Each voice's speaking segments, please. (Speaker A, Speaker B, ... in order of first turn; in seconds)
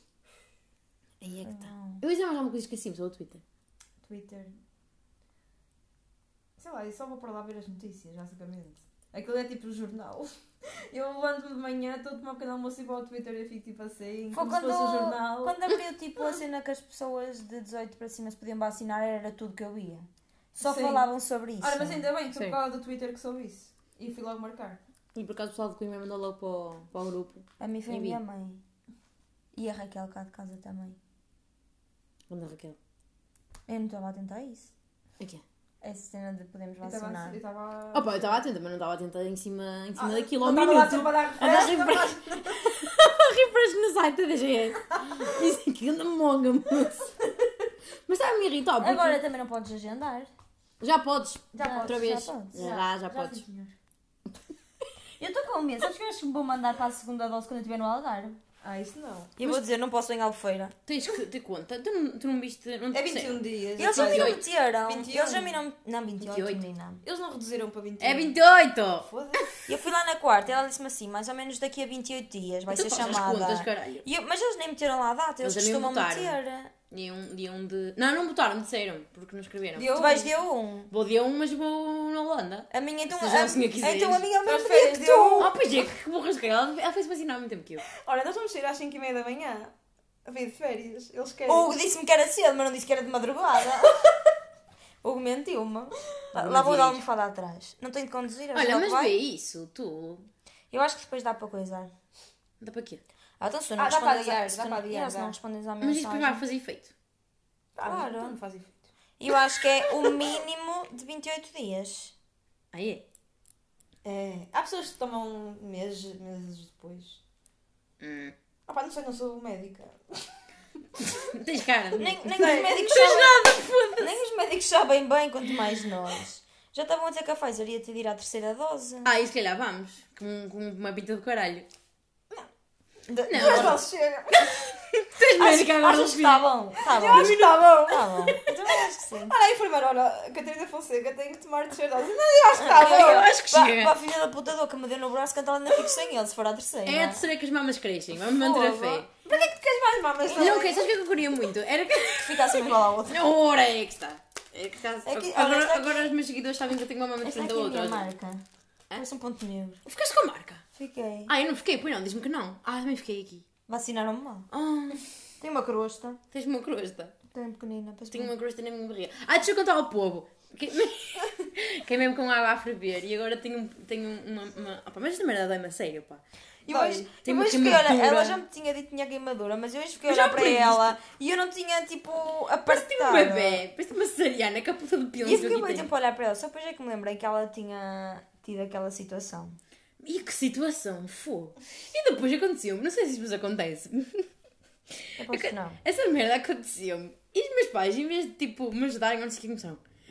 Speaker A: 1.2-3.4, 25.1-28.2, 32.3-32.8, 37.9-47.1, 48.1-49.2, 50.8-53.4, 60.9-64.4, 66.2-66.6, 68.0-69.1, 72.7-74.0, 75.4-76.4, 76.9-80.0, 80.9-84.3, 85.4-87.8, 96.3-97.0, 98.5-100.3, 102.6-103.0, 105.8-106.9, 112.7-113.0, 118.0-118.3, 121.0-124.1, 129.0-131.7, 133.3-133.8, 134.5-136.4, 137.1-137.8, 142.8-143.9, 146.8-149.1, 150.3-158.1, 159.8-160.6, 161.3-163.4, 164.5-165.0, 166.3-167.1, 168.1-176.2, 177.2-178.4, 180.1-180.9, 182.7-185.9, 190.0-194.3, 194.9-199.8
Speaker B: 1.4-2.0, 14.3-22.0, 27.6-28.6, 29.5-31.0, 33.7-34.7, 35.8-37.4, 48.8-50.3, 51.6-52.7, 55.2-58.4, 59.4-60.7, 63.8-67.0, 69.7-76.7, 79.9-80.9, 82.7-85.5, 91.5-94.0, 95.0-99.1, 100.7-101.9, 103.4-106.4, 107.8-108.3, 109.2-112.1, 122.0-123.4, 124.0-129.1, 133.1-133.8, 135.3-139.3, 142.6-147.2, 152.1-153.2, 155.1-156.1, 157.2-158.4, 158.9-159.8, 160.8-161.3, 163.7-164.5, 165.4-166.2, 167.3-168.3, 176.7-183.6, 185.2-189.6, 195.2-195.8
Speaker C: 4.0-4.5, 6.6-15.6, 20.6-21.1, 21.6-24.8, 36.8-38.4, 40.0-42.7, 51.5-53.7, 58.6-59.3, 62.9-65.6, 67.0-68.3, 69.0-69.5, 79.8-80.3, 84.4-85.5, 88.0-89.7, 90.2-91.7, 103.8-105.3, 107.8-108.9, 114.0-117.2, 118.7-120.3, 122.2-123.5, 133.3-134.6, 136.8-143.3, 148.3-150.9, 176.7-177.1